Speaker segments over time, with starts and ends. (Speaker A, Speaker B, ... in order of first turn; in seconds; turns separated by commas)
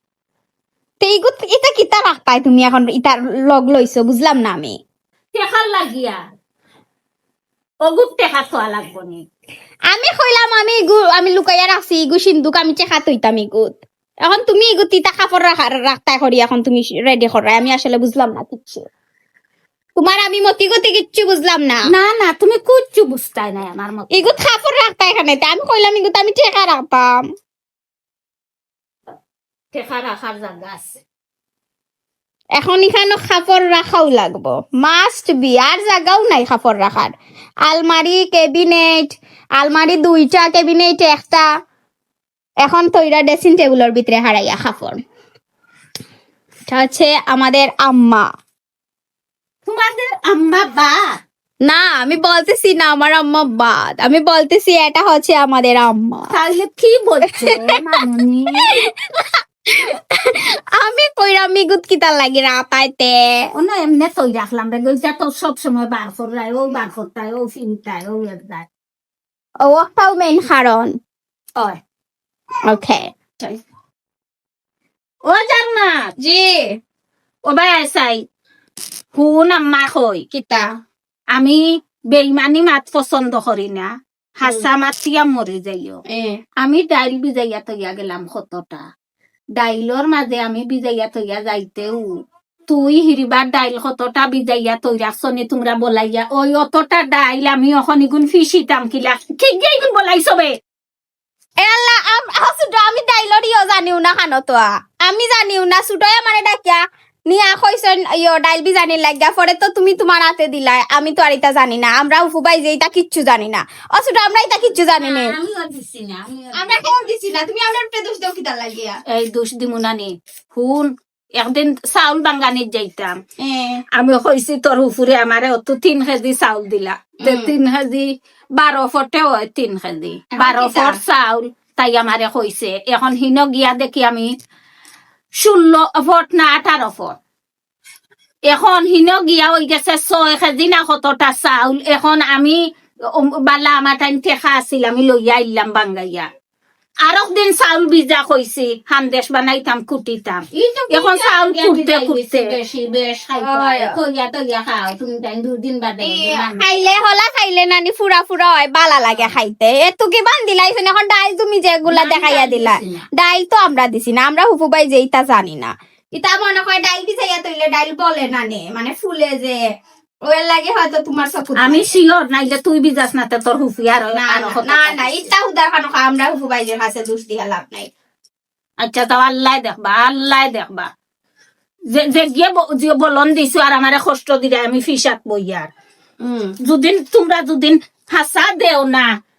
Speaker A: 1.0-4.8, Speaker B: 5.3-6.2, Speaker B: 7.8-9.3, Speaker A: 9.9-18.9, Speaker A: 20.0-21.8, Speaker B: 21.9-24.3, Speaker A: 24.1-27.2, Speaker B: 29.7-30.9, Speaker A: 32.6-37.1, Speaker A: 37.7-41.5, Speaker A: 42.6-45.0, Speaker A: 46.7-48.2, Speaker B: 49.7-51.2, Speaker A: 51.6-56.3, Speaker B: 56.3-58.7, Speaker A: 57.3-57.8, Speaker A: 58.7-63.2, Speaker B: 63.5-68.7, Speaker A: 69.6-71.0, Speaker A: 72.7-73.6, Speaker B: 75.3-76.1, Speaker A: 76.2-76.8, Speaker B: 77.5-78.2, Speaker B: 79.1-80.2, Speaker A: 80.3-80.7, Speaker B: 81.3-86.0, Speaker A: 86.1-86.4, Speaker B: 86.6-88.9, Speaker B: 89.6-92.1, Speaker B: 92.7-100.5, Speaker A: 101.6-115.3, Speaker B: 115.1-116.8, Speaker A: 116.5-119.0, Speaker B: 119.1-123.2, Speaker A: 123.4-123.8, Speaker B: 123.9-134.3, Speaker A: 127.2-127.5, Speaker A: 130.3-131.0, Speaker B: 135.4-137.2, Speaker B: 138.5-146.3, Speaker B: 147.0-152.6, Speaker C: 150.6-153.6, Speaker A: 153.4-154.0, Speaker B: 153.4-156.7, Speaker A: 156.0-169.6, Speaker B: 161.9-163.1, Speaker A: 170.3-171.9, Speaker B: 171.6-175.3, Speaker A: 174.2-177.9, Speaker B: 178.8-180.9, Speaker B: 181.9-185.7, Speaker A: 186.2-186.6, Speaker B: 186.6-189.1